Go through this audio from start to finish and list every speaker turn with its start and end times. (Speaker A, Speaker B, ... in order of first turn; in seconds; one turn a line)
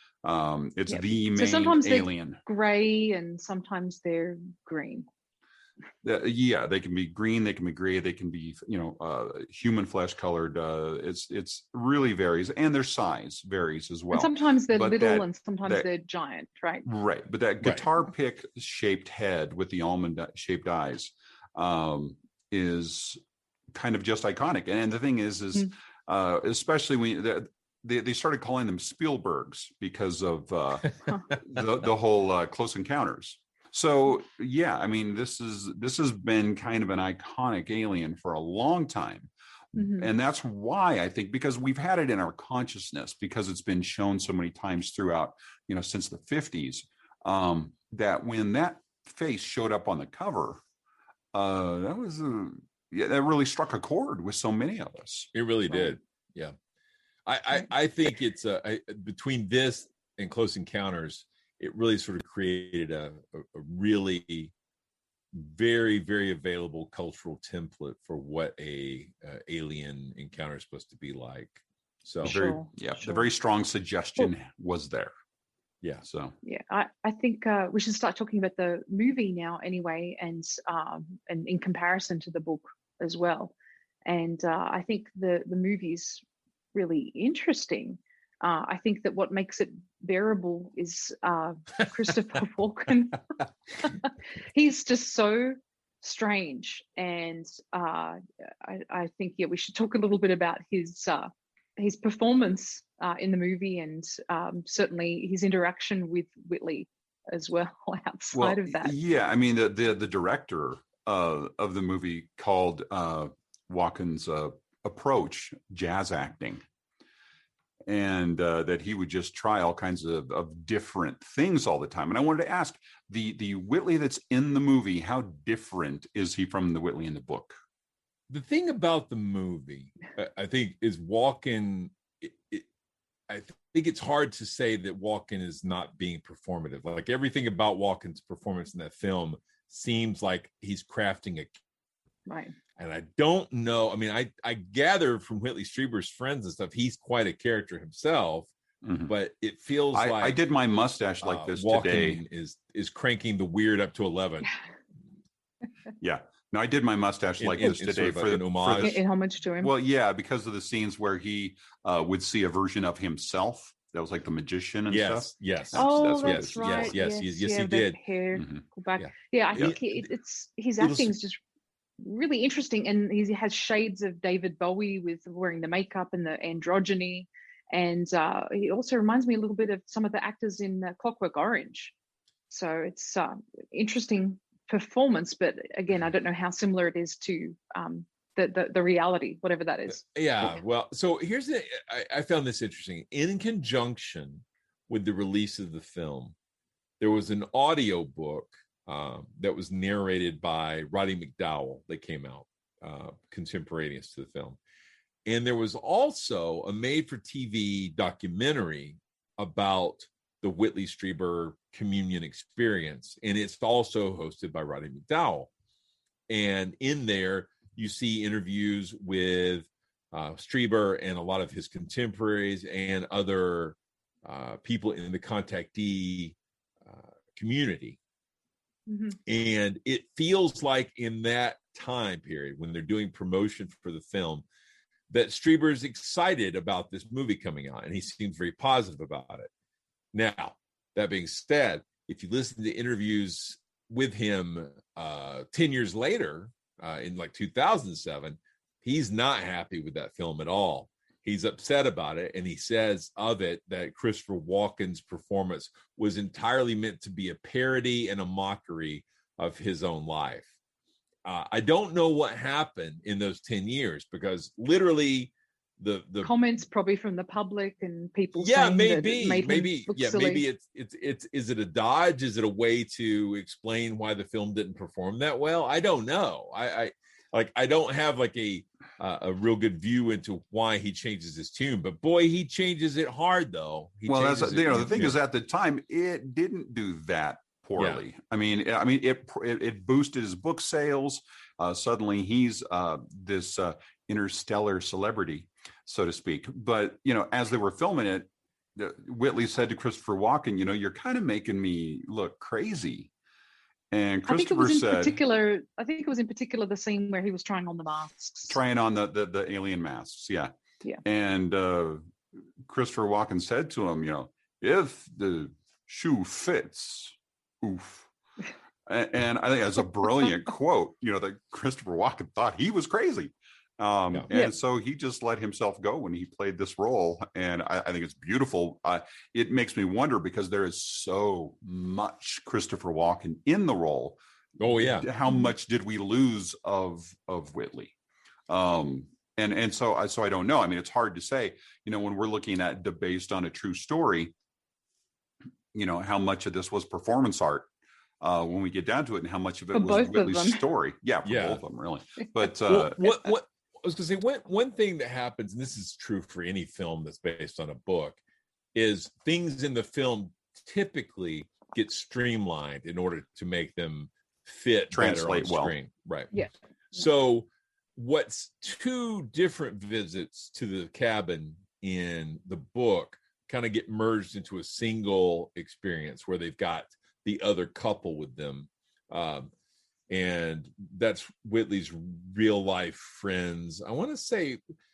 Speaker A: 0.2-2.4
Speaker B: 0.9-5.0
Speaker A: 6.0-15.9
Speaker B: 14.1-16.9
Speaker A: 16.8-23.2
Speaker A: 23.7-50.6
Speaker B: 39.8-40.1
Speaker A: 51.3-55.3
Speaker C: 55.3-56.5
Speaker C: 57.2-64.5
Speaker C: 65.3-72.4
Speaker A: 72.2-75.1
Speaker B: 72.2-73.2
Speaker A: 76.0-76.3
Speaker B: 76.4-83.5
Speaker B: 84.0-86.2
Speaker B: 86.7-93.2
Speaker B: 93.8-108.9
Speaker A: 108.3-116.6
Speaker A: 117.8-127.5
Speaker C: 128.3-132.6
Speaker C: 133.3-141.5
Speaker B: 142.3-142.5
Speaker C: 142.8-148.5
Speaker A: 148.8-149.1
Speaker C: 149.1-150.4
Speaker A: 149.9-152.2
Speaker C: 151.2-154.5
Speaker A: 156.0-159.0
Speaker C: 157.4-158.9
Speaker B: 158.8-159.7
Speaker A: 159.6-166.9
Speaker C: 164.9-168.0
Speaker B: 165.7-171.4
Speaker A: 168.3-168.6
Speaker C: 169.0-169.9
Speaker C: 170.8-171.1
Speaker B: 172.0-181.9
Speaker B: 182.5-190.6
Speaker C: 190.0-196.3
Speaker C: 197.0-204.6
Speaker C: 205.2-215.5
Speaker C: 216.3-228.0
Speaker B: 228.9-229.2
Speaker C: 229.3-234.4
Speaker C: 235.1-239.5
Speaker C: 240.1-260.5
Speaker C: 261.2-266.3
Speaker B: 266.2-270.4
Speaker C: 268.4-285.2
Speaker A: 284.1-303.1
Speaker C: 287.8-288.0
Speaker A: 303.9-305.2
Speaker B: 304.3-308.6
Speaker A: 308.5-310.5
Speaker A: 311.0-312.1
Speaker A: 312.6-318.1
Speaker A: 318.9-337.9
Speaker C: 334.6-335.1
Speaker B: 335.3-335.5
Speaker A: 338.5-344.3
Speaker A: 345.7-347.7
Speaker A: 348.2-353.3
Speaker B: 349.7-350.6
Speaker C: 351.2-351.6
Speaker C: 352.7-358.2
Speaker C: 358.7-366.3
Speaker A: 364.9-365.7
Speaker B: 366.3-367.0
Speaker C: 366.9-379.5
Speaker C: 380.1-384.6